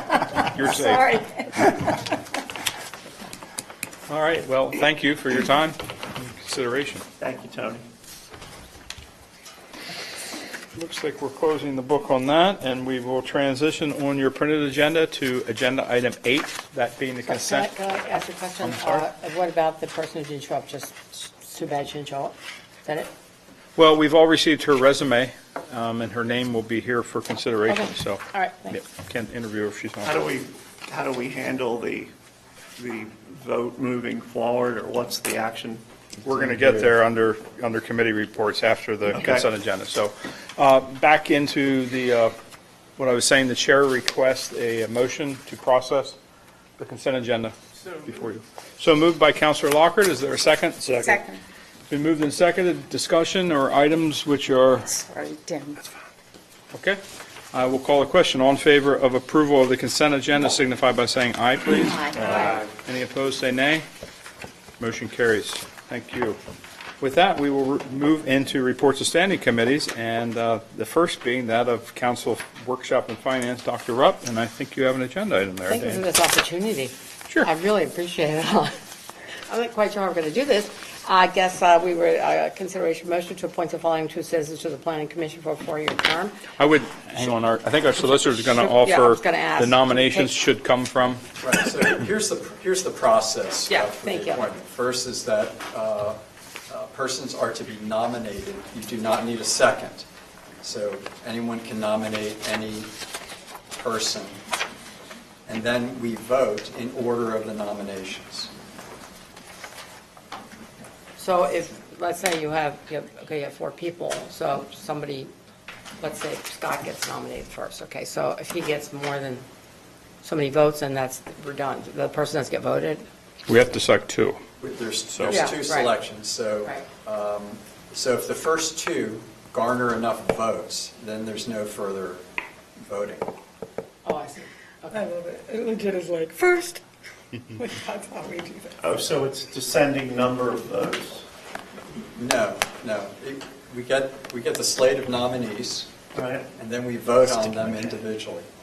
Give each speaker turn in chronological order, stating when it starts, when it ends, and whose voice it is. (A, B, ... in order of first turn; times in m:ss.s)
0:00.3-0:01.2 A
0:00.6-0:01.8 B
0:04.1-0:07.0 A
0:07.2-0:07.8 C
0:10.7-0:17.7 A
0:17.2-0:22.3 D
0:18.6-0:19.0 A
0:22.8-0:23.1 D
0:23.8-0:30.1 A
0:27.7-0:28.8 D
0:30.0-0:32.1 C
0:32.8-0:35.8 C
0:36.2-0:42.3 A
0:39.1-0:39.5 C
0:43.0-0:46.2 A
0:46.8-0:51.2 A
0:51.0-0:51.4 B
0:51.9-0:55.0 A
0:55.0-0:55.8 B
0:56.7-0:57.0 A
0:57.5-1:03.8 A
1:01.9-1:02.4 B
1:04.8-1:06.4 A
1:07.0-1:16.0 A
1:15.7-1:18.7 D
1:19.5-1:26.4 D
1:26.6-1:31.2 A
1:28.1-1:30.4 D
1:31.4-1:40.0 E
1:33.7-1:34.4 D
1:40.6-1:42.9 E
1:43.7-1:44.4 E
1:45.5-1:48.5 E
1:51.2-1:55.3 D
1:56.0-1:59.4 D
2:00.2-2:03.0 D
2:03.5-2:04.4 A
2:04.6-2:12.2 E
2:05.1-2:05.4 A
2:05.3-2:05.9 D
2:12.8-2:13.3 E
2:14.0-2:15.1 D
2:15.1-2:16.8 B
2:17.6-2:18.6 B
2:18.8-2:21.2 C
2:22.1-2:25.9 E
2:26.1-2:26.4 C
2:26.5-2:28.4 E
2:27.4-2:27.9 C